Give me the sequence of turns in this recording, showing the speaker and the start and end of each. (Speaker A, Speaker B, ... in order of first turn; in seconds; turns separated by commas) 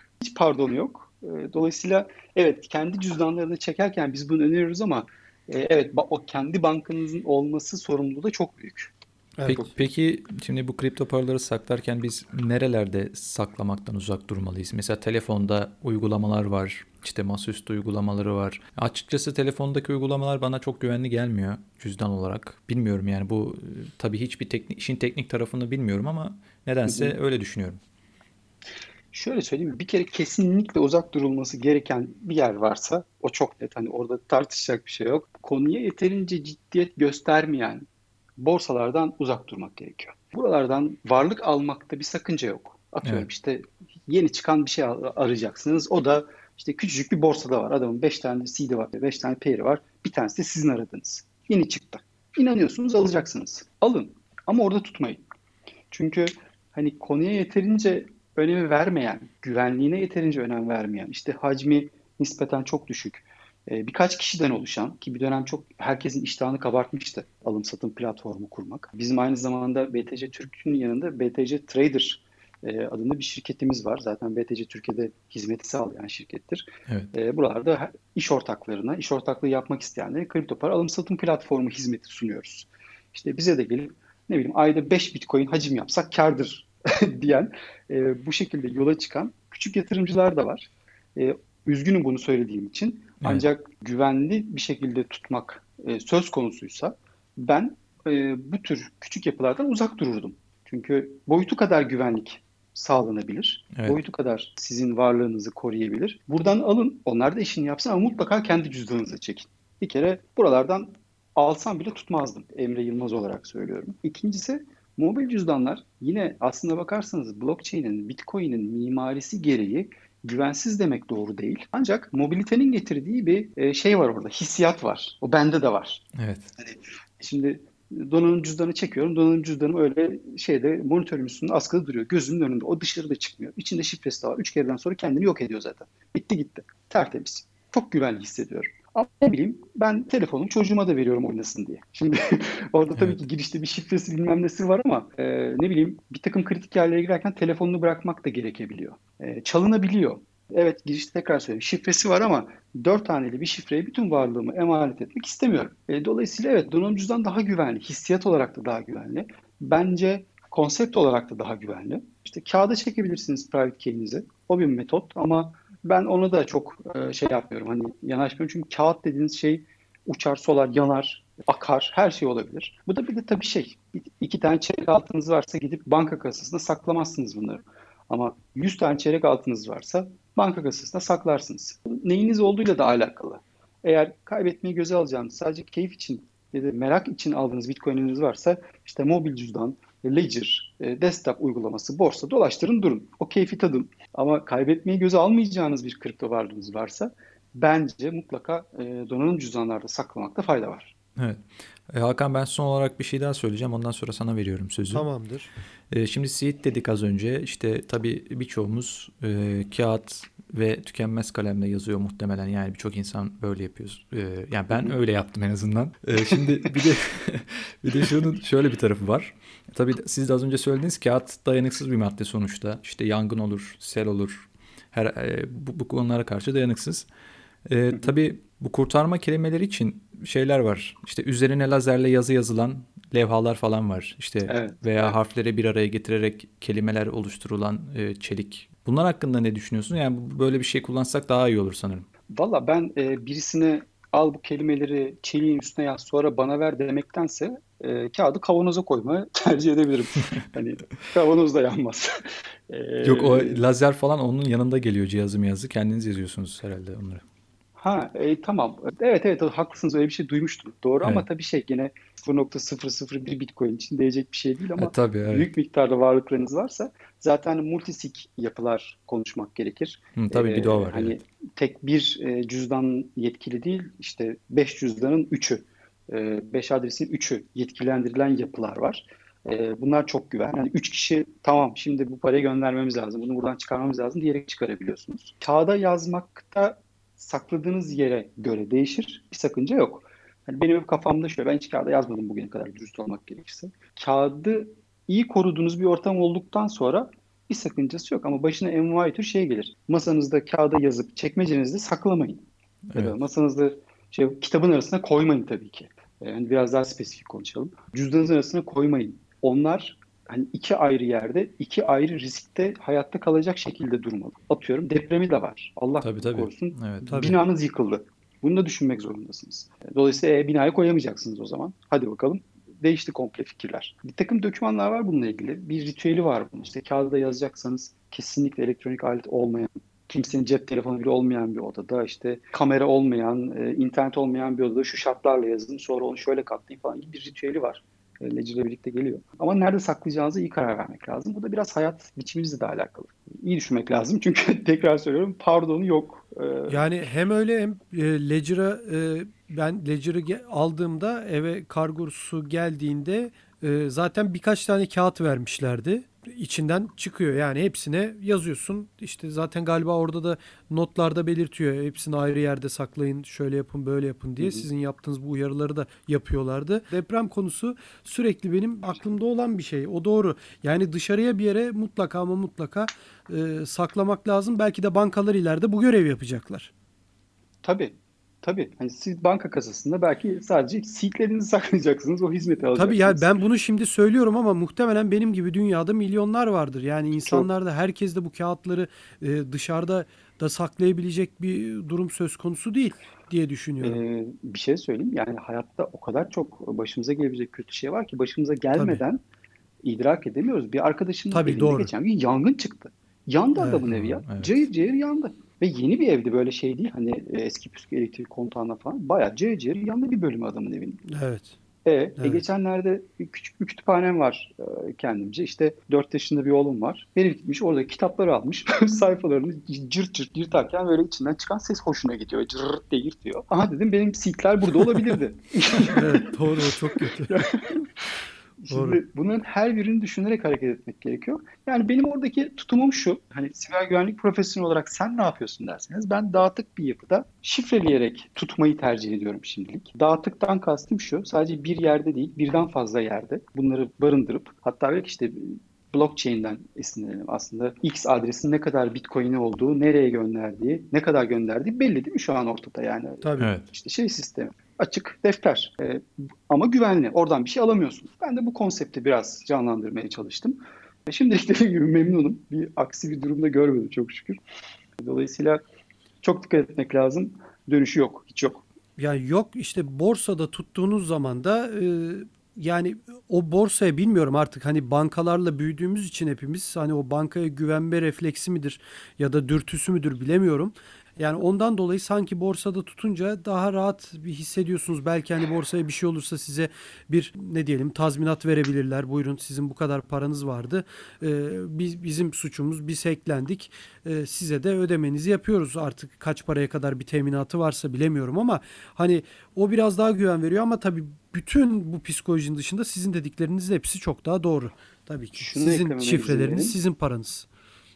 Speaker A: 0.2-8.9, Speaker B: 9.4-9.7, Speaker C: 9.4-27.8, Speaker A: 26.9-27.1, Speaker A: 29.1-37.9, Speaker A: 38.4-55.2, Speaker A: 55.9-126.0, Speaker C: 126.1-126.5, Speaker A: 126.6-200.9, Speaker C: 142.9-143.2, Speaker C: 201.2-205.1, Speaker B: 204.9-205.5, Speaker C: 205.9-227.1, Speaker C: 227.7-242.1, Speaker A: 234.5-235.2, Speaker A: 242.3-253.6, Speaker C: 253.0-257.2, Speaker A: 257.8-346.9, Speaker C: 264.8-265.5, Speaker C: 270.2-271.2, Speaker C: 316.0-317.4, Speaker B: 317.1-317.4, Speaker B: 346.7-376.7, Speaker A: 364.4-364.7, Speaker A: 377.6-383.3, Speaker B: 382.8-394.0, Speaker A: 387.2-387.5, Speaker A: 393.8-399.2, Speaker B: 398.8-399.0, Speaker A: 399.8-411.0, Speaker B: 401.3-401.9, Speaker C: 403.8-404.7, Speaker B: 411.1-411.6, Speaker A: 411.9-427.9, Speaker B: 425.8-427.3, Speaker A: 428.6-464.4, Speaker B: 428.7-429.0, Speaker B: 453.2-453.5, Speaker C: 453.4-453.7, Speaker A: 465.0-465.6, Speaker A: 466.2-468.6, Speaker B: 469.0-507.5, Speaker A: 505.4-506.8